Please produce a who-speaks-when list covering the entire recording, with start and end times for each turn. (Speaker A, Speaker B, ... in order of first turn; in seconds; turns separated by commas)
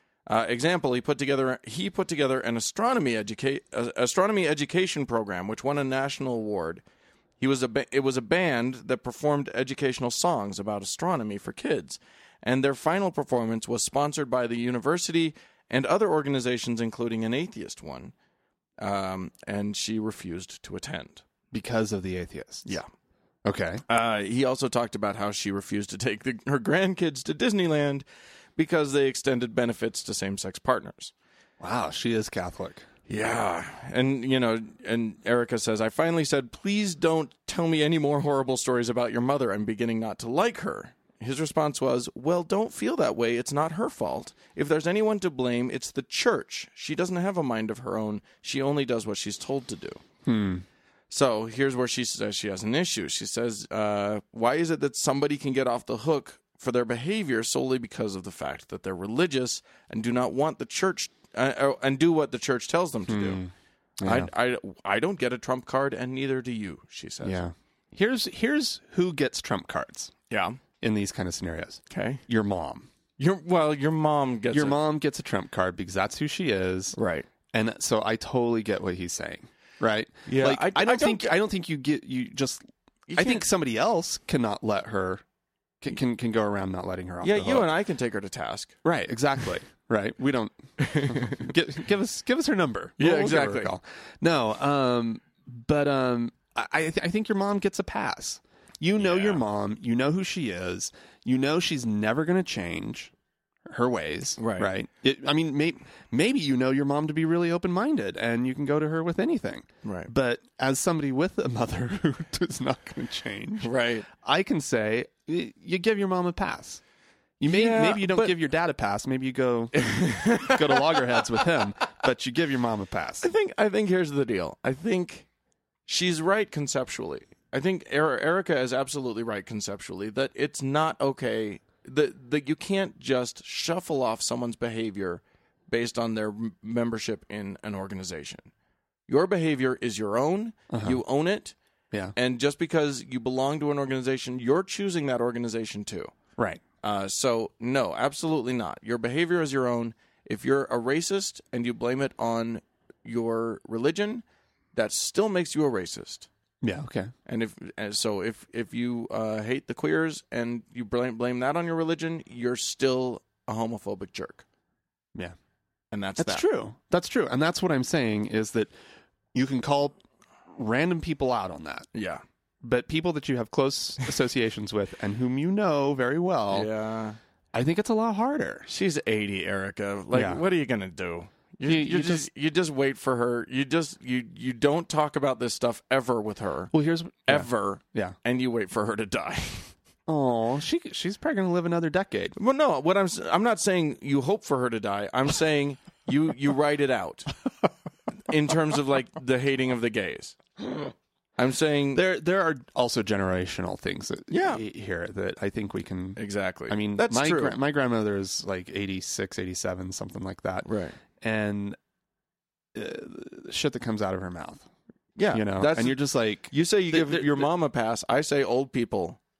Speaker A: 0.3-6.8, Speaker A: 7.4-18.1, Speaker A: 18.8-21.2, Speaker B: 21.5-22.8, Speaker B: 23.4-23.8, Speaker A: 23.9-28.0, Speaker A: 28.6-31.1, Speaker B: 31.6-32.9, Speaker A: 33.1-50.0, Speaker B: 50.2-50.6, Speaker A: 51.1-63.4, Speaker B: 63.1-64.3, Speaker A: 64.0-67.4, Speaker B: 67.2-70.1, Speaker A: 70.3-70.6, Speaker B: 70.8-72.9, Speaker A: 71.9-72.2, Speaker A: 73.2-74.8, Speaker B: 74.5-77.0, Speaker A: 76.9-77.3, Speaker B: 77.5-85.2, Speaker A: 80.2-81.3, Speaker A: 83.1-83.4, Speaker B: 85.8-87.7, Speaker A: 87.2-88.8, Speaker B: 88.8-103.1, Speaker A: 90.8-91.5, Speaker A: 93.0-93.7, Speaker A: 99.0-99.4, Speaker B: 103.7-116.8, Speaker A: 104.4-104.7, Speaker A: 109.8-110.1, Speaker A: 113.6-114.1, Speaker B: 117.4-123.3, Speaker A: 117.5-118.4, Speaker A: 119.8-121.4, Speaker A: 123.2-125.3, Speaker A: 125.8-138.5, Speaker A: 139.1-141.5, Speaker B: 140.7-141.0, Speaker A: 142.1-146.1, Speaker A: 146.8-156.3, Speaker B: 156.6-157.1, Speaker A: 157.2-164.4, Speaker A: 165.9-166.4, Speaker B: 166.2-168.7, Speaker B: 169.3-171.9, Speaker A: 171.9-172.2, Speaker B: 172.6-176.7, Speaker A: 176.5-177.2, Speaker B: 177.5-178.7, Speaker A: 178.7-186.7, Speaker B: 180.1-180.4, Speaker B: 181.6-182.3, Speaker B: 186.7-188.2, Speaker A: 187.3-189.7, Speaker B: 190.1-192.3, Speaker A: 192.3-197.3, Speaker A: 198.3-200.4, Speaker A: 201.4-202.0, Speaker B: 201.9-211.8, Speaker A: 204.3-204.6, Speaker A: 206.2-207.6, Speaker A: 210.6-211.0, Speaker B: 212.7-214.7, Speaker A: 215.2-219.2, Speaker B: 215.3-217.5